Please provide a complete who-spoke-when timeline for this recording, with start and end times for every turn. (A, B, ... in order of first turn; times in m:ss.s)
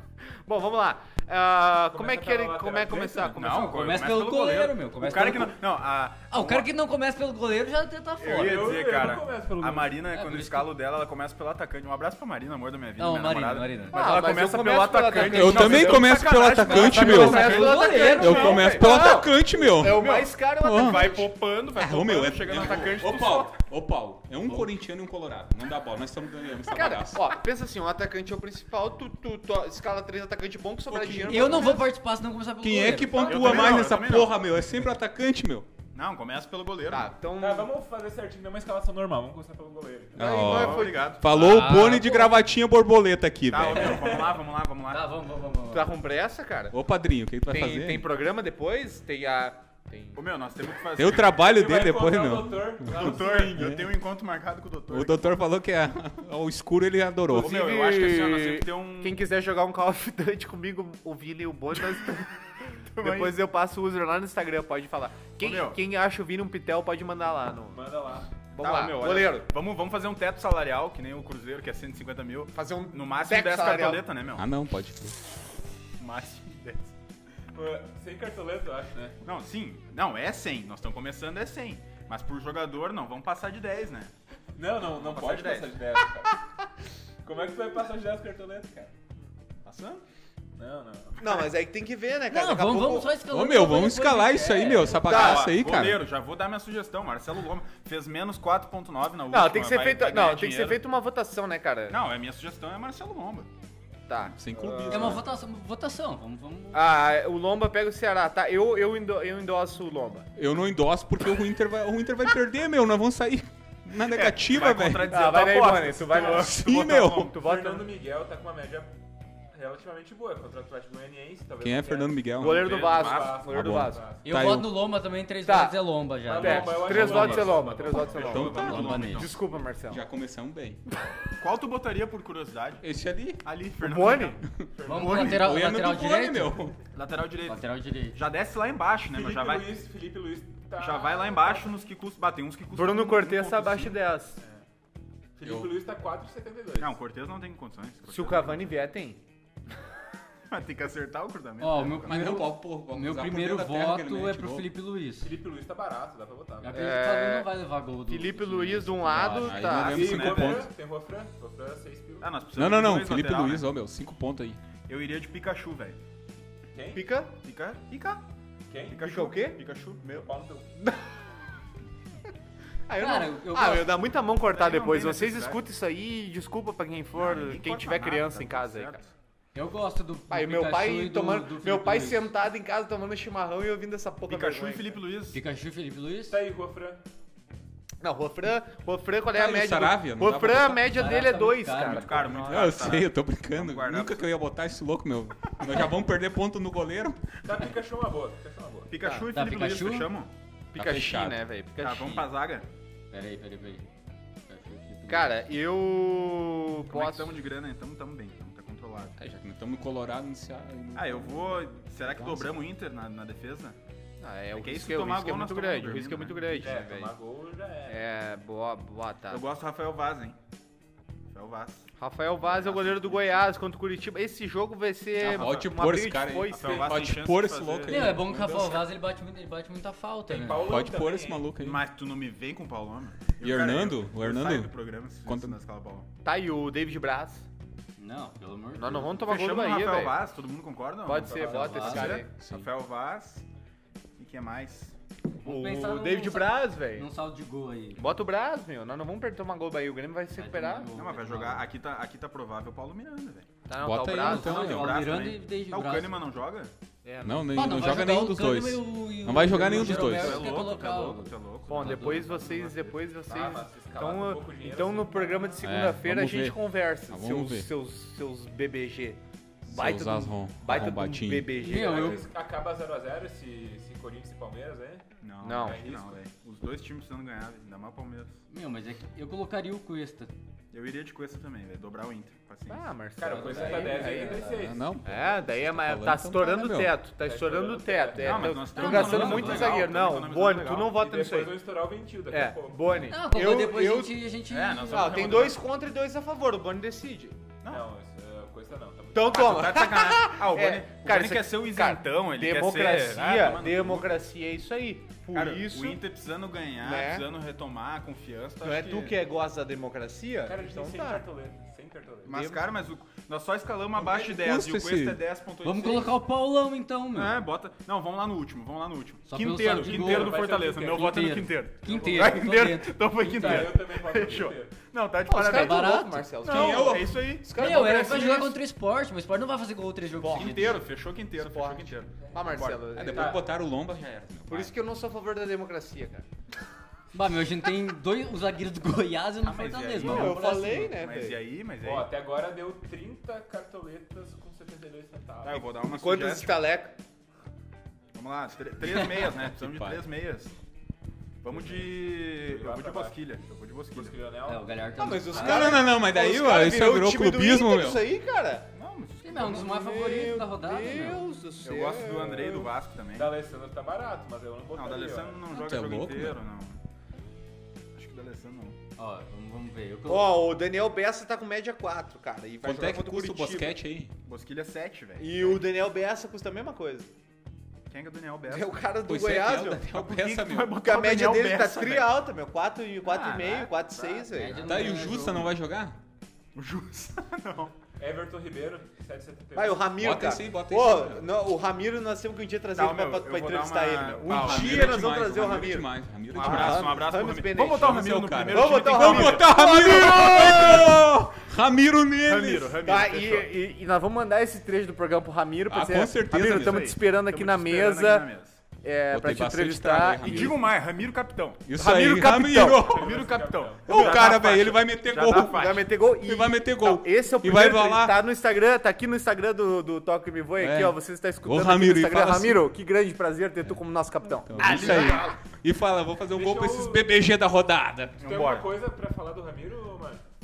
0:00.4-0:03.8 A
0:01.9-0:03.6 B
0:03.3-0:06.7 C
0:03.5-0:05.6 D
0:06.3-0:08.9 D
0:08.2-0:23.5 C
0:08.4-0:10.1 B
0:10.1-0:10.7 D
0:13.0-0:14.0 D
0:13.9-0:21.3 A
0:15.1-0:15.9 D
0:15.2-0:21.2 E
0:16.6-0:19.0 D
0:21.7-0:27.3 E
0:26.7-0:31.8 A
0:30.9-0:31.7 E
0:31.2-0:33.6 D
0:32.6-0:35.7 E
0:33.3-0:34.5 C
0:35.9-0:37.1 C
0:36.9-0:37.7 A
0:37.4-0:40.2 B
0:40.2-0:41.1 A
0:40.2-0:44.1 E
0:40.3-0:41.5 C
0:41.3-0:42.4 D
0:43.5-0:45.1 C
0:43.7-0:46.0 D
0:45.7-0:46.7 A
0:46.7-0:48.1 E
0:47.5-0:50.2 A
0:50.1-0:51.4 C
0:51.0-0:53.9 E
0:51.4-0:53.7 B
0:52.8-0:55.4 C
0:54.9-0:57.6 E
0:57.3-0:59.2 C
0:57.3-1:02.4 A
1:02.9-1:03.4 C
1:03.0-1:07.8 A
1:05.4-1:05.8 C
1:07.7-1:08.3 B
1:08.5-1:09.5 A
1:08.6-1:14.5 C
1:12.5-1:14.1 A
1:14.4-1:15.2 E
1:16.0-1:16.9 C
1:17.5-1:19.2 B
1:19.2-1:24.1 C
1:24.6-1:26.4 B
1:24.9-1:25.8 C
1:27.2-1:28.9 B
1:29.6-1:30.0 C
1:30.6-1:31.5 B
1:31.2-1:33.1 A
1:32.3-1:35.0 D
1:33.3-1:36.0 E
1:35.0-1:40.8 C
1:35.0-1:35.5 A
1:39.3-1:42.0 A
1:41.9-1:43.5 C
1:44.1-1:45.2 A
1:44.3-1:45.2 E
1:44.9-1:47.0 D
1:46.7-1:50.3 A
1:50.4-1:55.1 E
1:54.0-1:57.3 C
1:55.1-1:57.9 A
1:56.2-1:57.3 E
1:57.4-1:58.9 B
1:59.5-2:04.5 B
2:01.6-2:02.8 E
2:02.4-2:04.0 A
2:03.0-2:03.3 C
2:03.5-2:04.9 E
2:04.2-2:07.7 D
2:05.4-2:05.8 A
2:06.2-2:08.6 B
2:06.3-2:10.0 A
2:08.0-2:09.4 C
2:08.2-2:09.1 E
2:08.5-2:09.3 D
2:09.9-2:10.8 E
2:11.4-2:12.8 C
2:12.8-2:13.4 E
2:13.4-2:15.5 C
2:13.8-2:14.4 A
2:14.6-2:16.8 E
2:14.8-2:15.5 B
2:14.8-2:16.6 D
2:16.9-2:19.7 C
2:17.4-2:18.2 D
2:19.1-2:21.7 B
2:20.8-2:24.0 C
2:22.7-2:24.4 A
2:24.4-2:24.6 B
2:25.4-2:27.0 B
2:25.4-2:25.8 E
2:26.8-2:28.6 C
2:28.1-2:29.2 A
2:30.5-2:32.4 C
2:31.6-2:35.4 D
2:32.1-2:34.7 E
2:35.2-2:37.0 B
2:36.6-2:39.6 D
2:36.7-2:37.5 A
2:38.1-2:40.0 A
2:39.2-2:40.7 E
2:39.6-2:40.7 C
2:39.8-2:42.3 B
2:42.2-2:43.7 C
2:42.6-2:44.6 E
2:44.9-2:46.0 C
2:46.7-2:47.0 B
2:46.9-2:47.3 A
2:47.4-2:48.2 C
2:48.7-2:49.0 B
2:48.9-2:50.2 C
2:49.0-2:49.6 A
2:50.0-2:50.7 B
2:50.8-2:51.0 A
2:52.9-2:59.0 A
2:53.0-2:54.0 D
2:54.5-2:55.6 C
2:57.1-2:59.1 C
2:59.5-3:02.3 D
3:00.3-3:05.0 A
3:04.2-3:05.4 C
3:05.3-3:06.4 D
3:06.3-3:07.0 B
3:08.0-3:12.6 A
3:09.3-3:10.9 E
3:10.8-3:12.4 D
3:11.8-3:14.3 C
3:12.3-3:17.4 E
3:17.4-3:18.9 B
3:18.9-3:20.3 C
3:19.0-3:19.3 A
3:19.3-3:20.1 D
3:20.7-3:22.3 A
3:20.7-3:21.4 E
3:21.8-3:22.7 C
3:23.1-3:23.9 D
3:24.5-3:25.3 D
3:25.1-3:27.4 A
3:26.9-3:29.2 C
3:29.2-3:31.7 E
3:30.9-3:33.8 C
3:34.2-3:37.1 A
3:34.5-3:36.7 C
3:36.5-3:38.0 B
3:37.9-3:39.4 A
3:39.3-3:40.4 C
3:41.3-3:41.9 C
3:42.0-3:46.9 A
3:42.4-3:43.5 C
3:45.2-3:48.8 E
3:45.3-3:45.6 B
3:46.5-3:48.3 C
3:46.6-3:46.9 B
3:47.9-3:50.8 D
3:50.3-3:51.5 B
3:50.6-3:51.8 E
3:51.6-3:56.1 C
3:53.4-3:55.6 E
3:56.2-3:57.4 A
3:58.0-3:59.2 D
3:58.8-4:00.2 A
3:59.2-4:03.4 C
4:01.0-4:02.3 A
4:01.2-4:02.0 B
4:01.3-4:02.2 D
4:02.4-4:02.7 E
4:04.2-4:04.9 C
4:05.4-4:07.1 A
4:05.4-4:08.0 D
4:08.0-4:10.9 A
4:10.4-4:11.7 D
4:10.9-4:13.5 C
4:13.7-4:14.6 A
4:13.8-4:15.0 E
4:14.2-4:16.2 D
4:14.3-4:16.7 C
4:17.0-4:17.9 A
4:17.2-4:20.5 E
4:17.5-4:22.6 D
4:19.5-4:23.0 C
4:21.7-4:32.3 A
4:23.2-4:25.6 B
4:25.6-4:27.7 E
4:29.6-4:31.6 E
4:31.6-4:32.3 D
4:31.6-4:35.0 B
4:35.2-4:38.4 C
4:35.4-4:35.8 A
4:35.6-4:36.1 B
4:38.5-4:40.3 D
4:40.7-4:42.9 C
4:42.7-4:44.3 A
4:43.2-4:44.8 B
4:43.2-4:44.7 D
4:43.7-4:44.4 C
4:44.4-4:47.0 E
4:45.0-4:51.5 A
4:47.2-4:49.6 B
4:48.2-4:51.0 C
4:48.7-4:49.8 D
4:50.8-4:53.2 B
4:52.3-4:54.2 A
4:53.1-4:55.6 D
4:54.5-4:55.6 C
4:54.9-4:57.4 A
4:57.6-4:59.6 B
4:59.1-5:06.0 A
4:59.3-5:04.2 C
5:05.3-5:09.2 C
5:06.8-5:07.2 A
5:08.6-5:11.2 A
5:10.4-5:12.5 B
5:12.2-5:16.2 C
5:12.3-5:12.6 A
5:14.0-5:15.2 E
5:15.6-5:17.4 D
5:17.1-5:28.4 C
5:19.3-5:23.8 D
5:19.7-5:20.8 B
5:21.9-5:22.4 B
5:23.2-5:24.8 B
5:25.3-5:28.5 A
5:25.4-5:26.3 D
5:26.4-5:27.3 E
5:27.5-5:30.9 D
5:30.2-5:32.8 C
5:30.2-5:33.4 A
5:32.2-5:33.4 B
5:32.9-5:34.7 E
5:34.5-5:36.2 A
5:37.1-5:40.9 D
5:39.4-5:42.1 C
5:40.0-5:41.4 A
5:41.8-5:45.7 B
5:45.4-5:46.6 C
5:45.8-5:46.9 A
5:48.1-5:50.6 C
5:48.8-5:49.3 D
5:49.6-5:50.0 E
5:51.4-5:54.2 C
5:51.5-5:53.3 B
5:53.9-5:55.4 B
5:54.5-5:55.8 D
5:55.0-5:58.7 A
5:55.3-5:58.0 E
5:58.7-5:59.8 C
5:59.2-6:01.2 D
5:59.4-6:02.7 A
6:01.6-6:03.3 C
6:03.1-6:05.4 B
6:04.7-6:06.8 C
6:05.5-6:06.4 E
6:07.9-6:08.8 C
6:09.0-6:10.4 D
6:10.1-6:13.8 A
6:12.6-6:14.1 E
6:14.2-6:15.6 C
6:15.2-6:17.1 A
6:17.9-6:18.8 C
6:18.5-6:19.8 A
6:19.0-6:20.8 E
6:19.9-6:22.2 C
6:20.8-6:24.6 A
6:23.0-6:24.5 C
6:24.3-6:25.6 D
6:24.6-6:26.0 E
6:26.5-6:27.7 C
6:28.0-6:30.0 B
6:29.5-6:38.0 A
6:30.0-6:31.3 E
6:32.8-6:35.2 C
6:34.3-6:42.8 E
6:36.3-6:41.0 C
6:38.5-6:41.0 A
6:42.2-6:43.5 C
6:42.8-6:48.3 A
6:45.7-6:47.0 E
6:46.4-6:48.6 C
6:48.8-6:50.6 A
6:49.1-6:50.6 E
6:50.2-6:51.6 C
6:51.6-6:53.2 E
6:51.7-6:52.9 A
6:52.8-6:54.3 B
6:52.9-6:55.8 C
6:53.9-6:58.2 E
6:55.3-7:05.4 A
7:00.6-7:02.7 E
7:04.4-7:08.2 E
7:04.6-7:05.2 C
7:06.3-7:07.1 B
7:08.2-7:08.7 C
7:08.2-7:10.2 B